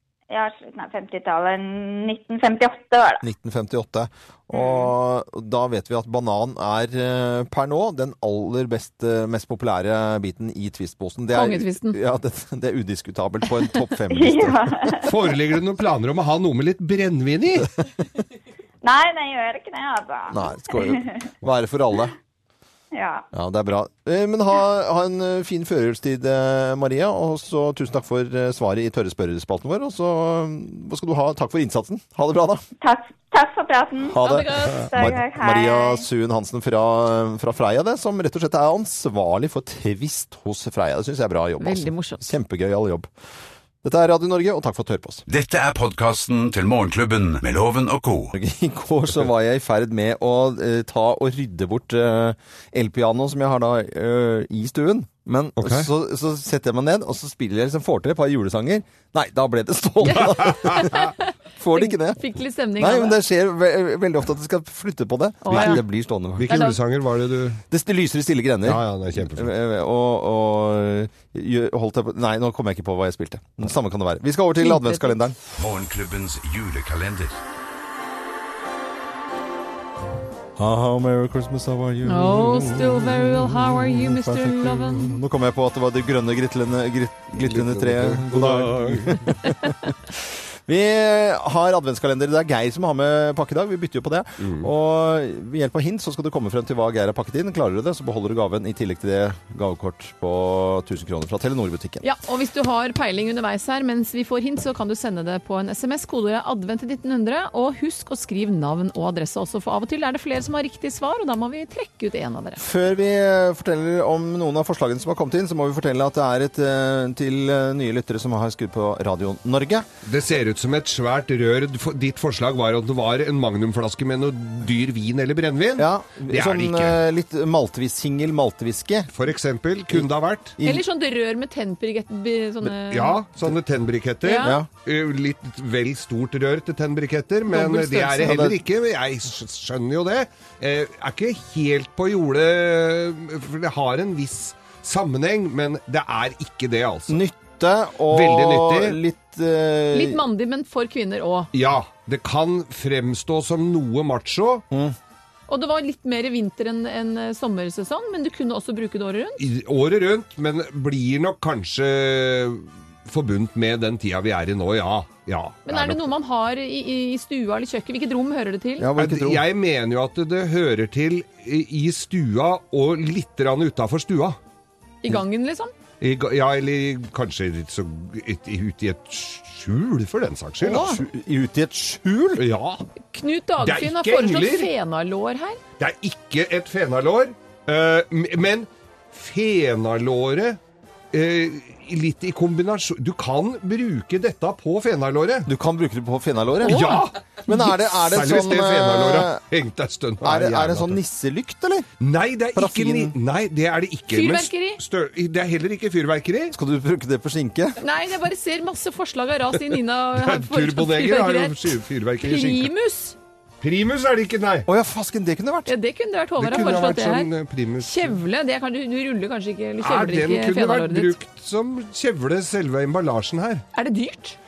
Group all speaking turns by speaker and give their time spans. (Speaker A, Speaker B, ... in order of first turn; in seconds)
Speaker A: 0.3-3.2, 4.5-4.9, 14.1-15.1, 18.8-21.2, 22.9-23.2, 32.8-34.2, 34.7-36.0
Speaker B: 3.2-15.0, 20.3-22.1, 23.3-32.6, 34.0-43.1, 43.8-45.2, 48.3-62.2, 62.8-66.7, 67.7-75.4, 80.6-102.0, 112.6-119.9, 125.8-129.1, 130.6-130.8, 134.4-134.7, 138.2-138.6, 147.1-150.2, 154.7-154.9, 168.8-169.4, 180.6-182.4, 195.5-199.4, 200.2-201.9, 202.6-203.1, 206.5-207.8, 214.7-215.7
Speaker C: 11.3-12.0, 34.2-34.9, 41.6-42.3, 60.0-63.2, 65.4-65.8, 66.5-66.8, 74.6-75.1, 82.0-85.2, 102.0-112.6, 130.6-133.2, 134.2-134.6, 137.5-138.4, 149.9-151.5, 155.5-159.4, 165.7-168.9, 175.0-175.7, 180.7-181.0, 183.1-185.6, 196.6-197.6, 204.1-204.8, 207.8-213.2, 215.7-217.3, 217.8-221.1, 223.7-224.4
Speaker D: 15.0-17.7, 55.6-55.9, 60.5-60.9, 65.5-65.8, 66.3-67.6, 68.6-69.5, 87.3-89.4, 94.4-94.7, 120.0-127.0, 129.1-130.6, 132.9-147.2, 148.1-149.0, 151.5-154.6, 159.4-166.0, 169.0-174.4, 176.0-181.0, 182.4-182.8, 183.6-184.7, 185.8-190.6, 191.1-195.5, 196.6-201.0, 202.0-206.5, 210.2-212.7, 213.6-214.7, 216.4-218.2, 219.8-223.6
Speaker E: 45.3-48.3, 75.6-77.4